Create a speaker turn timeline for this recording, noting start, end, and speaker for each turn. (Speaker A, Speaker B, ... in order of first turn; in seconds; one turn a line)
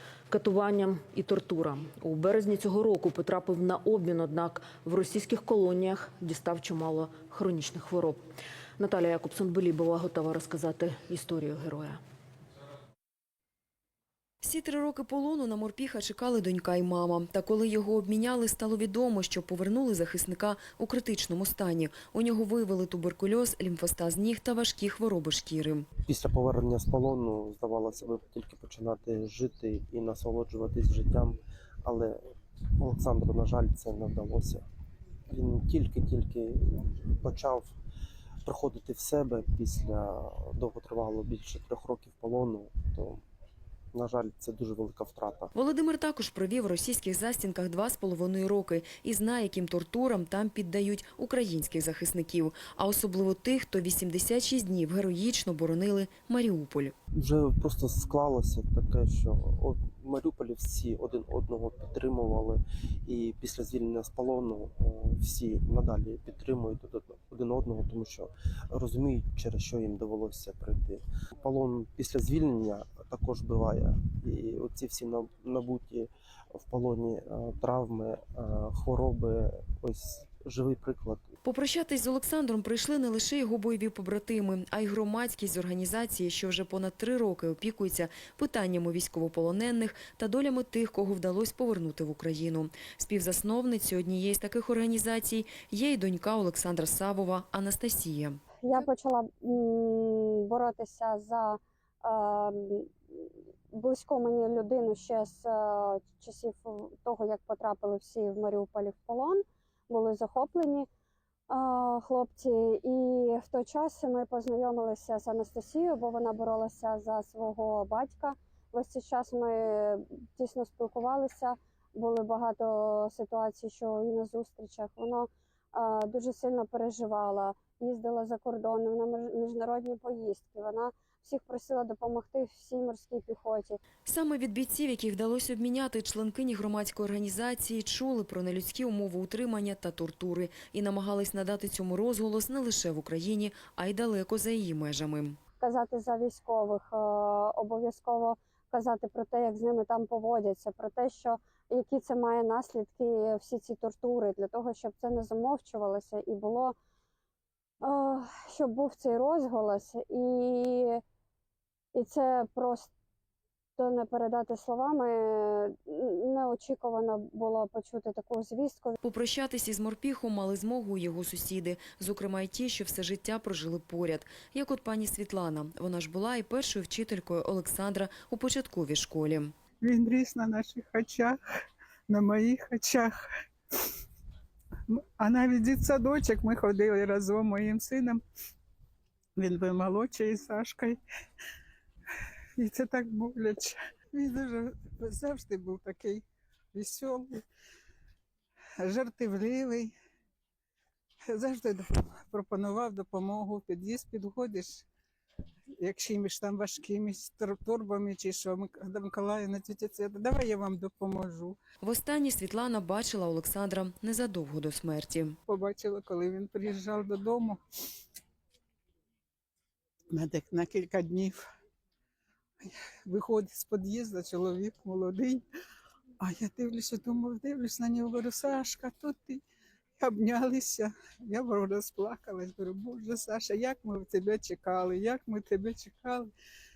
Speaker A: 0.3-8.2
Speaker A: 8.8-12.0
Speaker B: 14.4-25.9
Speaker C: 26.1-32.2
Speaker C: 32.8-34.6
Speaker C: 35.3-37.7
Speaker C: 38.4-43.2
Speaker C: 43.9-45.5
Speaker B: 45.5-56.9
Speaker C: 57.1-81.3
Speaker B: 81.4-98.8
Speaker D: 98.6-102.9
Speaker D: 103.7-110.9
Speaker D: 111.5-133.8
Speaker B: 134.1-145.4
Speaker D: 145.6-156.7
Speaker D: 157.8-161.0
Speaker D: 161.9-162.9
Speaker D: 163.8-169.0
Speaker B: 169.0-179.5
Speaker E: 179.8-181.4
Speaker E: 182.1-183.3
Speaker E: 184.9-188.2
Speaker E: 189.4-191.0
Speaker E: 192.6-197.4
Speaker E: 198.8-199.9
Speaker E: 201.3-204.8
Speaker E: 205.8-211.6
Speaker B: 211.8-215.4
Speaker E: 215.5-217.6
Speaker E: 220.1-221.4
Speaker E: 222.6-225.4
Speaker E: 226.2-229.4
Speaker E: 230.0-236.3